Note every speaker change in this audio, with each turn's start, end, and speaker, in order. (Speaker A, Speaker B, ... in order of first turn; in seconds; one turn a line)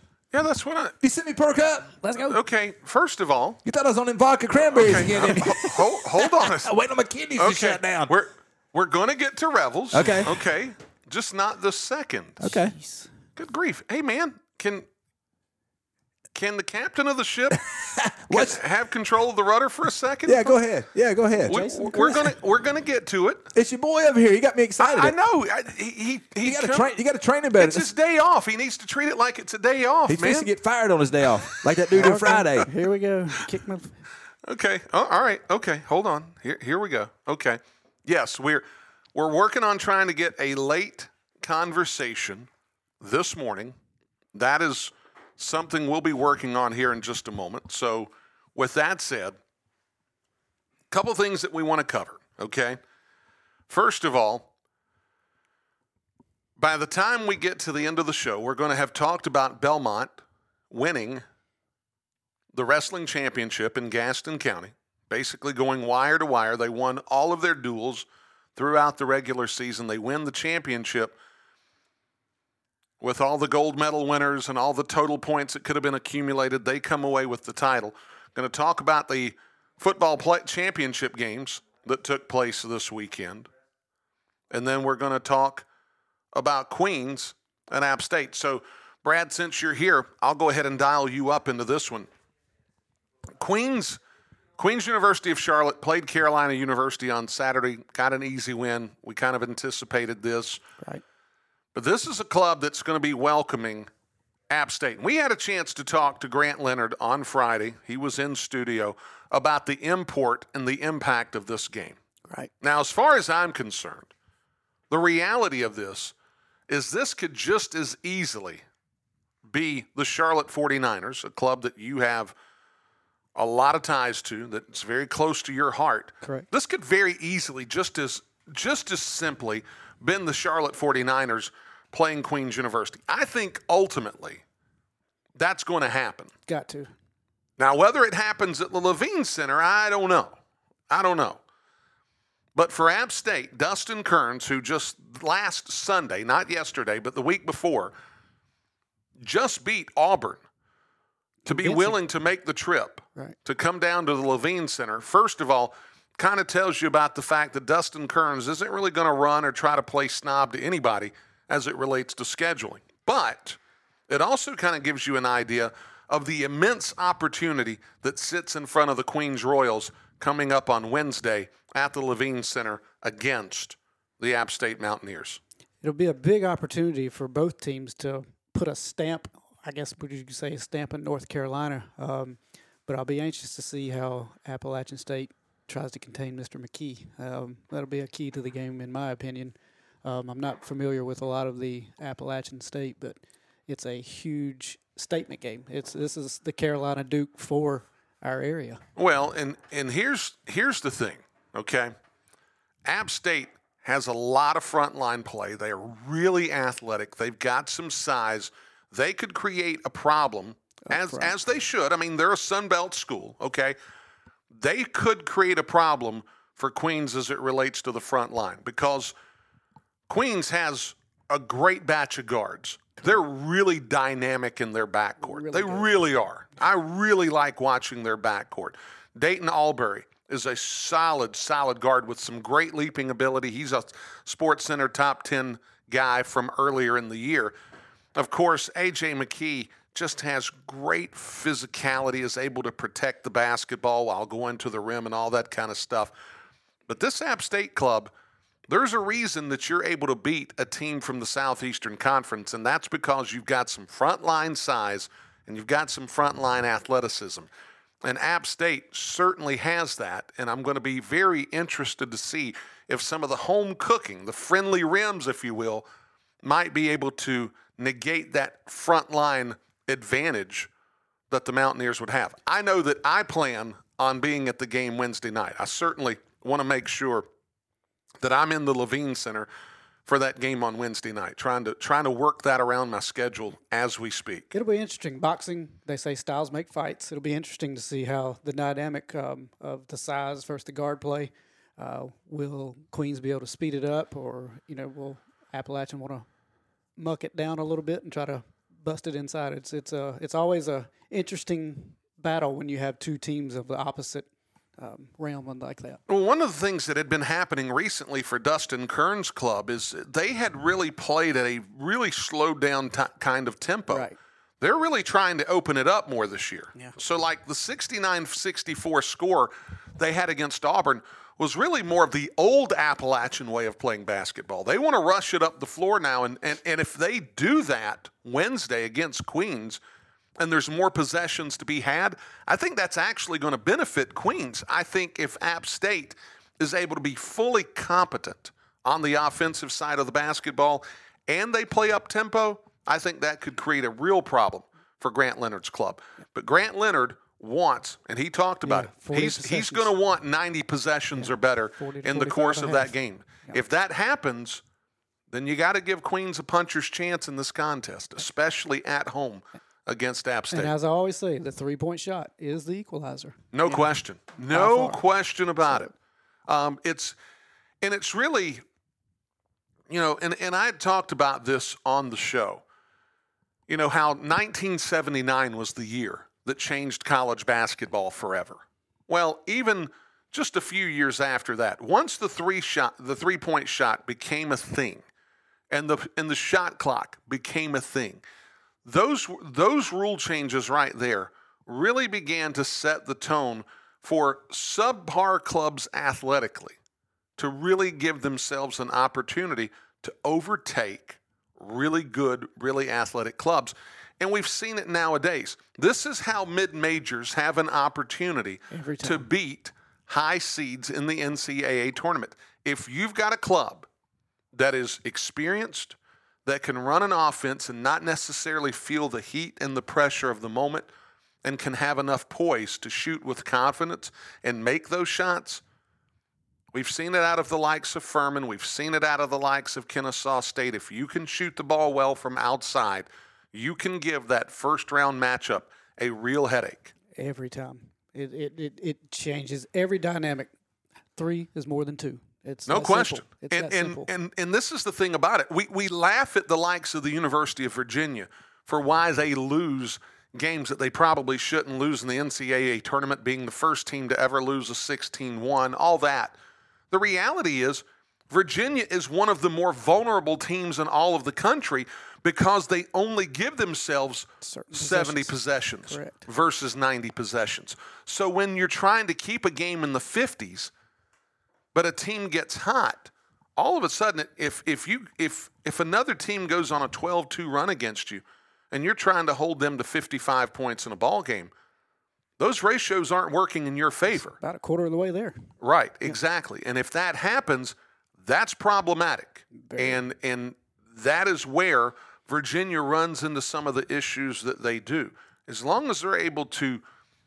Speaker A: 0.3-1.0
Speaker B: 1.0-1.9
Speaker C: 2.0-2.4
Speaker A: 2.1-3.6
Speaker B: 3.6-8.1
Speaker A: 4.7-6.7
Speaker A: 7.4-12.4
Speaker B: 9.9-10.3
Speaker C: 12.4-13.1
Speaker B: 12.4-12.7
Speaker A: 13.3-14.9
Speaker A: 16.3-17.6
Speaker B: 17.5-18.6
Speaker A: 18.3-20.6
Speaker B: 20.2-21.6
Speaker C: 21.3-22.3
Speaker A: 21.4-23.5
Speaker B: 23.5-25.1
Speaker A: 24.8-26.9
Speaker B: 26.4-27.9
Speaker A: 27.6-30.5
Speaker B: 30.1-32.7
Speaker A: 31.9-32.6
Speaker C: 31.9-34.0
Speaker A: 34.5-42.5
Speaker A: 43.0-43.7
Speaker A: 44.3-49.4
Speaker A: 50.9-52.8
Speaker A: 53.7-54.5
Speaker A: 56.6-60.1
Speaker A: 60.7-61.2
Speaker A: 62.5-71.1
Speaker A: 73.0-83.5
Speaker A: 84.5-85.7
Speaker A: 86.3-92.1
Speaker A: 93.4-94.0
Speaker A: 94.6-100.6
Speaker A: 101.7-103.9
Speaker A: 104.5-112.0
Speaker A: 112.6-114.1
Speaker A: 114.9-116.1
Speaker A: 116.7-118.6
Speaker A: 119.5-122.3
Speaker A: 123.3-134.4
Speaker A: 135.3-136.3
Speaker C: 136.5-136.9
Speaker A: 137.6-140.3
Speaker A: 140.9-141.4
Speaker A: 142.5-147.9
Speaker A: 149.2-150.4
Speaker C: 151.4-152.0
Speaker A: 151.5-163.6
Speaker A: 164.1-175.4
Speaker C: 175.8-198.8
Speaker A: 199.0-201.9
Speaker A: 202.8-213.8
Speaker C: 210.9-211.3
Speaker A: 214.5-219.1
Speaker A: 220.1-237.5
Speaker C: 225.2-225.9
Speaker A: 238.2-246.1
Speaker A: 246.9-248.1
Speaker A: 248.7-257.5
Speaker A: 258.0-265.8
Speaker A: 266.4-270.7
Speaker A: 271.3-277.3
Speaker A: 278.2-279.5
Speaker A: 280.1-284.5
Speaker C: 284.5-296.3
Speaker C: 296.9-304.2
Speaker C: 304.8-306.0
Speaker A: 306.1-314.1
Speaker C: 313.9-314.1
Speaker A: 314.6-329.8
Speaker A: 330.4-354.6
Speaker C: 348.6-349.9
Speaker C: 351.1-353.6
Speaker A: 355.3-360.7
Speaker C: 360.5-365.0
Speaker A: 363.5-365.9
Speaker C: 365.6-365.9
Speaker A: 366.5-367.2
Speaker A: 367.8-368.6
Speaker A: 369.9-372.6
Speaker A: 373.7-385.0
Speaker A: 385.7-388.2
Speaker A: 388.8-396.8
Speaker A: 397.4-413.9
Speaker C: 408.7-409.2
Speaker A: 414.5-420.9
Speaker A: 421.4-425.6
Speaker A: 426.7-436.9
Speaker C: 437.1-440.5
Speaker C: 441.1-444.1
Speaker A: 442.7-456.4
Speaker A: 456.9-470.7
Speaker C: 464.4-465.3
Speaker C: 465.9-466.2
Speaker A: 471.7-481.5
Speaker A: 482.4-484.4
Speaker C: 484.1-485.4
Speaker A: 485.6-496.8
Speaker C: 489.6-490.0